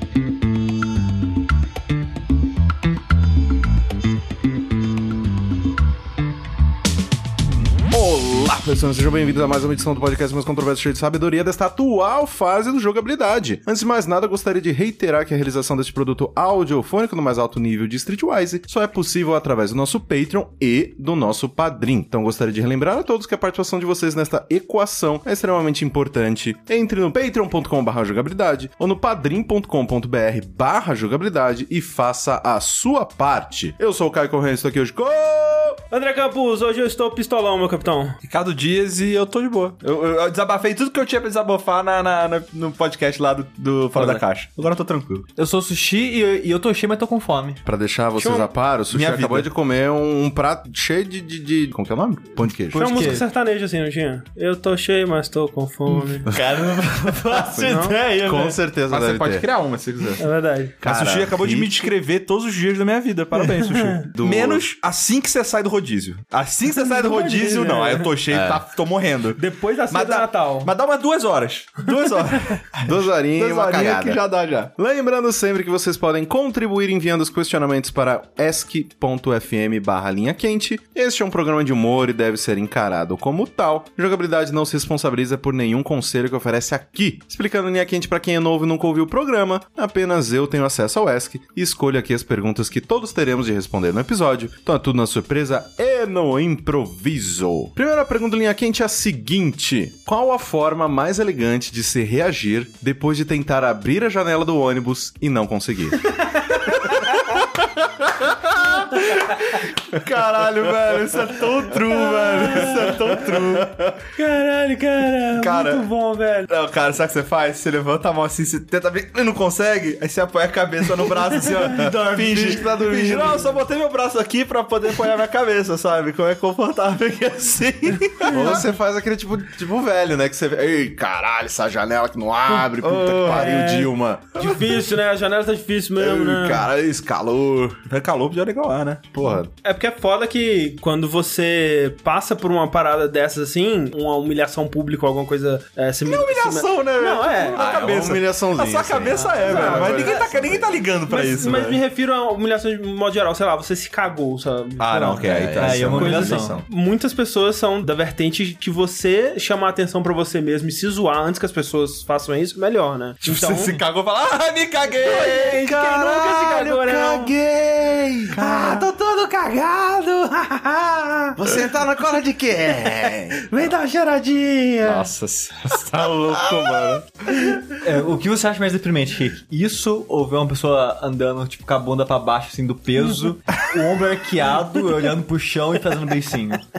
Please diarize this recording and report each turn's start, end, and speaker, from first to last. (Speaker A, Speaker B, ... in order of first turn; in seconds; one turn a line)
Speaker A: 7.9-35.8
Speaker B: 35.9-38.2
Speaker C: 38.2-45.2
Speaker D: 43.9-44.2
Speaker D: 45.4-47.6
Speaker A: 47.6-53.2
Speaker B: 48.2-48.5
Speaker C: 48.9-49.5
Speaker D: 52.7-53.2
Speaker B: 52.8-56.3
Speaker D: 55.9-58.6
Speaker B: 57.5-58.0
Speaker A: 58.1-59.5
Speaker C: 58.9-60.3
Speaker B: 60.2-60.8
Speaker C: 60.8-74.7
Speaker A: 60.8-61.7
Speaker B: 63.4-64.0
Speaker A: 64.1-64.6
Speaker B: 66.8-68.1
Speaker A: 68.3-68.6
Speaker B: 69.4-70.7
Speaker A: 72.8-74.2
Speaker A: 74.7-106.1
Speaker C: 108.5-109.3
Speaker C: 109.9-113.9
Speaker A: 112.0-113.8
Speaker B: 112.3-113.0
Speaker B: 114.2-116.5
Speaker C: 115.3-115.9
Speaker C: 116.5-128.7
Speaker B: 121.4-121.7
Speaker A: 121.7-123.5
Speaker A: 128.3-134.6
Speaker C: 132.8-133.6
Speaker B: 133.3-136.7
Speaker A: 136.0-137.8
Speaker C: 137.9-139.4
Speaker A: 139.1-139.5
Speaker B: 139.6-147.9
Speaker C: 146.0-151.8
Speaker A: 147.6-150.9
Speaker B: 149.1-150.2
Speaker B: 151.1-155.3
Speaker C: 154.8-156.6
Speaker A: 155.2-156.6
Speaker D: 155.6-156.6
Speaker B: 155.9-163.8
Speaker C: 163.2-166.6
Speaker B: 165.0-167.3
Speaker A: 166.5-170.1
Speaker C: 168.3-168.9
Speaker B: 168.6-168.9
Speaker B: 170.2-171.3
Speaker A: 171.4-173.6
Speaker B: 172.8-175.1
Speaker C: 174.8-176.9
Speaker A: 175.8-177.0
Speaker D: 177.8-186.6
Speaker B: 183.1-183.3